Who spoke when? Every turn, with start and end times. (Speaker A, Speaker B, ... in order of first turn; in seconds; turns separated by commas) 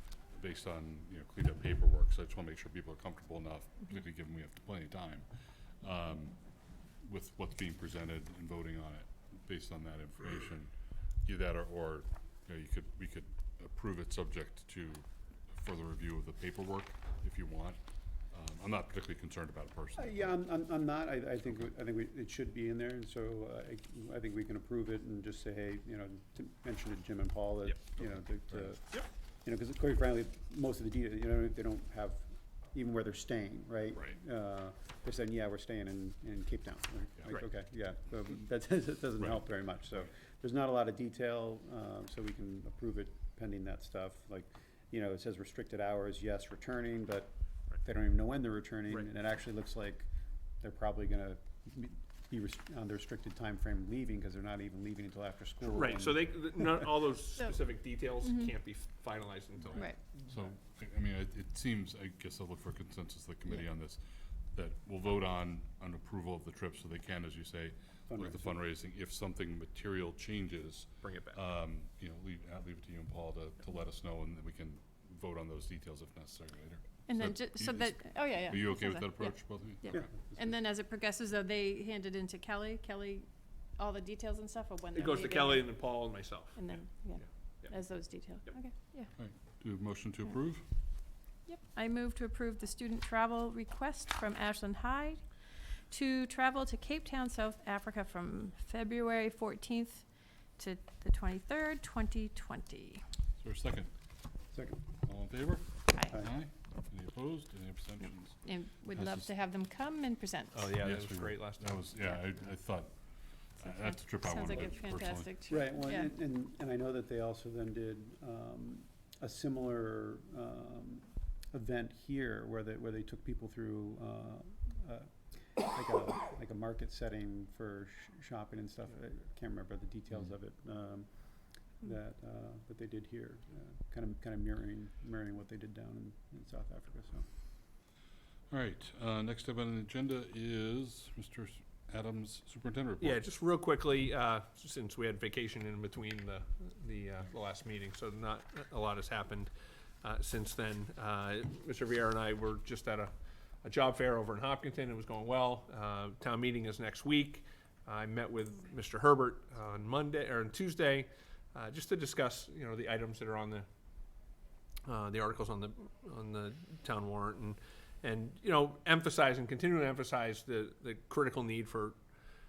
Speaker A: 0.3-5.3, Speaker A: 5.8-6.4, Speaker A: 7.0-10.7, Speaker A: 11.2-17.8, Speaker A: 18.3-20.6, Speaker B: 20.0-28.8, Speaker A: 21.4-21.7, Speaker A: 27.9-28.8, Speaker B: 29.4-50.1, Speaker A: 39.2-40.1, Speaker B: 50.6-56.1, Speaker C: 55.6-60.0, Speaker D: 58.2-58.5, Speaker A: 59.6-64.0, Speaker A: 64.5-80.0, Speaker B: 68.1-68.5, Speaker C: 71.0-71.4, Speaker D: 77.1-86.0, Speaker C: 84.9-87.7, Speaker D: 86.5-89.1, Speaker A: 89.2-90.6, Speaker D: 91.5-95.2, Speaker D: 95.9-100.0, Speaker D: 100.6-103.0, Speaker A: 103.4-103.9, Speaker A: 105.0-109.3, Speaker D: 105.9-106.2, Speaker D: 108.4-110.6, Speaker C: 110.5-111.8, Speaker A: 110.7-112.9, Speaker A: 113.6-115.3, Speaker D: 113.7-116.1, Speaker B: 115.5-125.1, Speaker B: 125.7-131.1, Speaker B: 131.8-137.2, Speaker A: 138.5-143.2, Speaker C: 143.0-149.5, Speaker C: 150.0-153.1, Speaker C: 153.6-163.6, Speaker C: 164.8-171.9